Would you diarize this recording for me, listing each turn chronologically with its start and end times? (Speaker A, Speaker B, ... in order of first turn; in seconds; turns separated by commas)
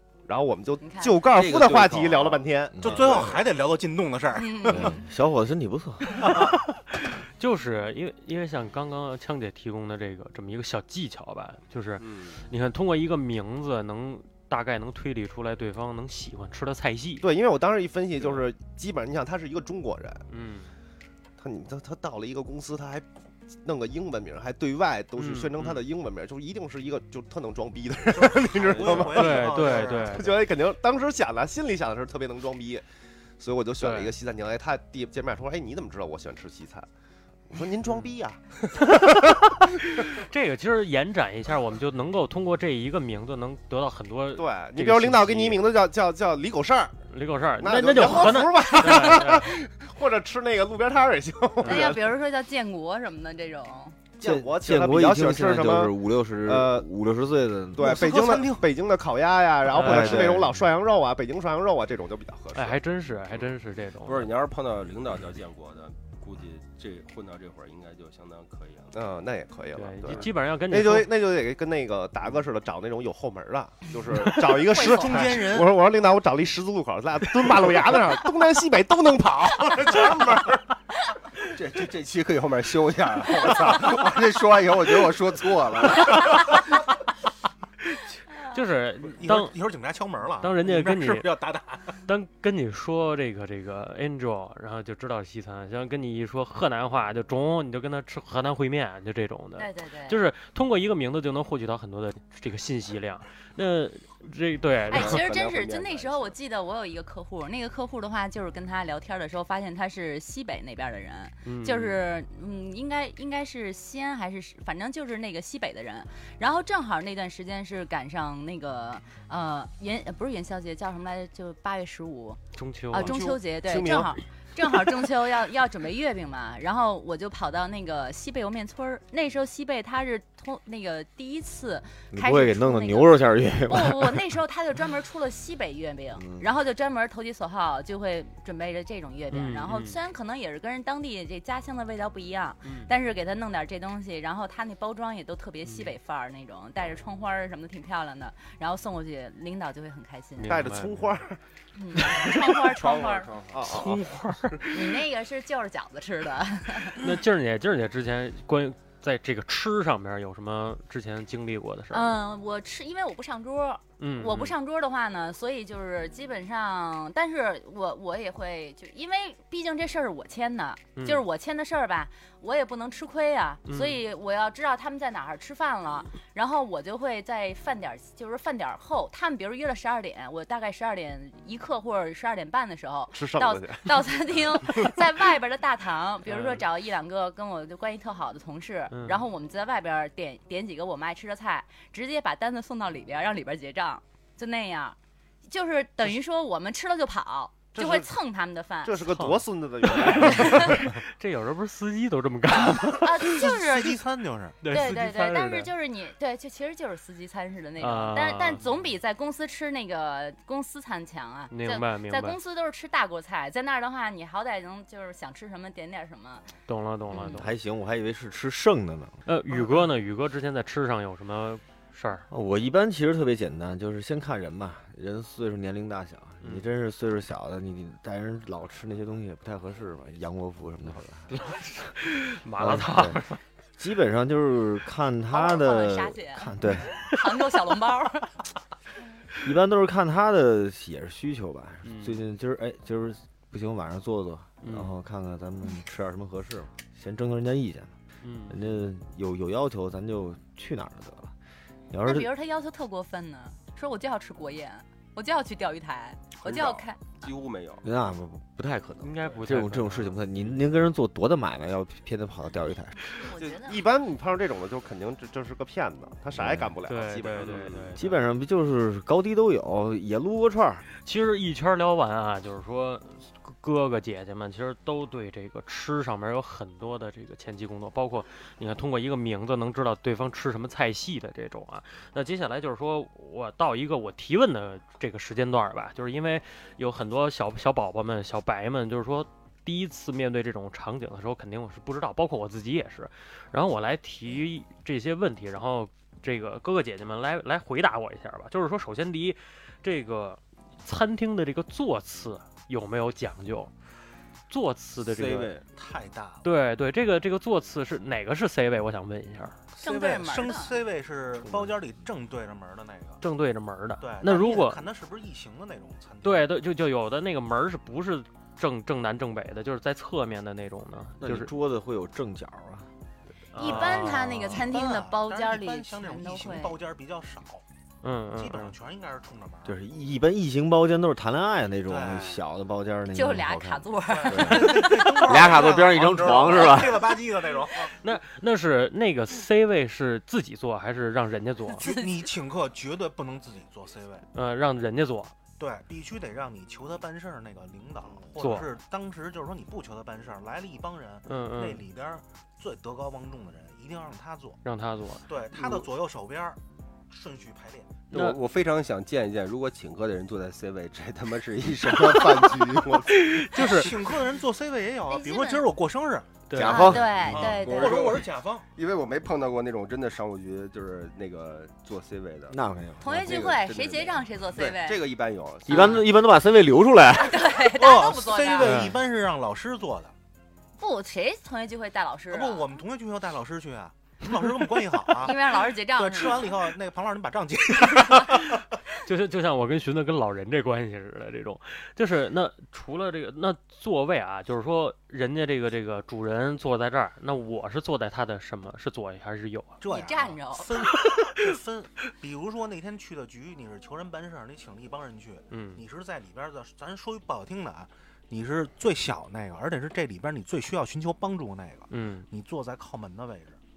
Speaker A: 0.2-3.4, Speaker B: 0.8-1.2, Speaker C: 1.3-3.4, Speaker D: 2.7-3.0, Speaker E: 2.8-4.9, Speaker B: 4.3-5.0, Speaker D: 4.7-6.5, Speaker E: 6.2-6.6, Speaker F: 7.4-17.2, Speaker C: 12.0-12.5, Speaker A: 17.2-20.2, Speaker F: 20.3-20.7, Speaker A: 21.4-32.8, Speaker F: 25.1-25.8, Speaker E: 28.1-30.3, Speaker F: 28.9-30.4, Speaker A: 33.4-36.9, Speaker F: 33.8-34.1, Speaker A: 37.5-39.8, Speaker F: 39.9-45.6, Speaker A: 44.4-47.0, Speaker F: 47.1-49.5, Speaker A: 47.6-52.1, Speaker B: 51.6-54.0, Speaker A: 54.2-56.9, Speaker D: 54.2-58.1, Speaker A: 57.7-62.8, Speaker E: 57.8-58.6, Speaker F: 59.7-60.5, Speaker D: 59.8-60.5, Speaker F: 62.5-64.3, Speaker C: 64.0-68.9, Speaker A: 68.9-80.6, Speaker F: 69.7-71.1, Speaker E: 74.6-75.8, Speaker B: 74.6-75.4, Speaker E: 80.0-80.4, Speaker C: 81.5-86.5, Speaker F: 88.4-89.6, Speaker E: 89.0-92.0, Speaker F: 90.4-91.4, Speaker F: 92.0-105.2, Speaker B: 99.5-100.2, Speaker C: 104.9-106.3, Speaker B: 104.9-150.6, Speaker F: 111.4-112.0, Speaker F: 122.5-123.2, Speaker E: 122.9-123.4, Speaker A: 123.1-124.1, Speaker D: 132.1-134.2, Speaker D: 136.2-136.4, Speaker F: 139.3-140.0, Speaker F: 142.6-142.9, Speaker F: 145.7-145.9, Speaker F: 150.4-151.1, Speaker A: 150.5-151.4, Speaker B: 151.7-153.3, Speaker F: 151.9-152.6, Speaker C: 152.7-153.7, Speaker A: 153.5-154.1, Speaker F: 153.6-154.8, Speaker B: 154.7-157.0, Speaker F: 157.0-162.2, Speaker B: 161.9-199.0, Speaker F: 164.0-164.5, Speaker F: 170.9-171.2, Speaker F: 173.7-174.0, Speaker A: 183.1-184.9, Speaker F: 186.2-186.6, Speaker F: 188.9-189.2, Speaker A: 197.7-198.1, Speaker A: 198.8-201.0, Speaker F: 199.1-203.4, Speaker B: 200.0-200.8, Speaker B: 203.0-204.0, Speaker E: 203.3-204.8, Speaker F: 204.6-205.7, Speaker B: 204.6-216.5, Speaker F: 207.8-208.7, Speaker F: 211.5-212.4, Speaker F: 216.7-217.5, Speaker D: 217.1-219.2, Speaker F: 219.2-222.3, Speaker D: 222.3-231.4, Speaker F: 231.3-233.4, Speaker D: 232.6-233.2, Speaker D: 233.8-237.0, Speaker B: 235.3-238.4, Speaker D: 239.4-247.9, Speaker F: 241.8-242.2, Speaker F: 244.6-245.0, Speaker F: 248.2-248.6, Speaker D: 248.5-251.3, Speaker D: 251.9-252.3, Speaker B: 252.0-257.3, Speaker C: 256.4-257.8, Speaker D: 257.8-263.0, Speaker F: 259.0-260.5, Speaker B: 263.1-263.8, Speaker A: 263.3-267.6, Speaker D: 266.3-266.7, Speaker F: 266.9-268.2, Speaker C: 267.4-268.0, Speaker D: 268.0-270.9, Speaker F: 271.0-303.7, Speaker F: 304.5-305.6, Speaker C: 305.0-305.6, Speaker E: 305.7-306.5, Speaker F: 306.4-309.6, Speaker E: 309.7-313.2, Speaker B: 309.8-310.8, Speaker F: 313.2-314.9, Speaker E: 314.0-316.5, Speaker F: 316.2-321.5, Speaker D: 321.2-322.9, Speaker F: 323.5-324.7, Speaker B: 323.5-326.8, Speaker E: 323.6-327.6, Speaker F: 328.0-328.7, Speaker E: 328.3-329.8, Speaker D: 329.6-337.2, Speaker E: 331.9-332.4, Speaker B: 333.1-335.5, Speaker E: 334.1-338.0, Speaker F: 338.0-341.9, Speaker E: 341.8-344.2, Speaker F: 344.3-345.3, Speaker E: 345.6-354.6, Speaker F: 348.4-348.8, Speaker F: 351.2-351.8, Speaker F: 354.6-355.8, Speaker E: 355.3-358.0, Speaker F: 358.1-358.4, Speaker C: 358.1-363.3, Speaker F: 363.1-364.1, Speaker E: 363.5-366.5, Speaker B: 365.1-365.7, Speaker F: 366.5-367.0, Speaker D: 366.5-367.3, Speaker B: 366.6-368.1, Speaker C: 367.2-372.6, Speaker E: 367.3-368.7, Speaker D: 372.5-373.4, Speaker B: 373.0-375.0, Speaker C: 373.1-376.0, Speaker D: 375.7-377.5, Speaker B: 377.1-378.7, Speaker E: 377.7-380.1, Speaker F: 378.6-379.0, Speaker B: 380.8-382.8, Speaker E: 382.3-388.6, Speaker B: 385.2-386.6, Speaker F: 388.3-399.8, Speaker E: 399.8-413.6, Speaker B: 399.9-400.7, Speaker F: 405.5-405.8, Speaker F: 411.9-412.3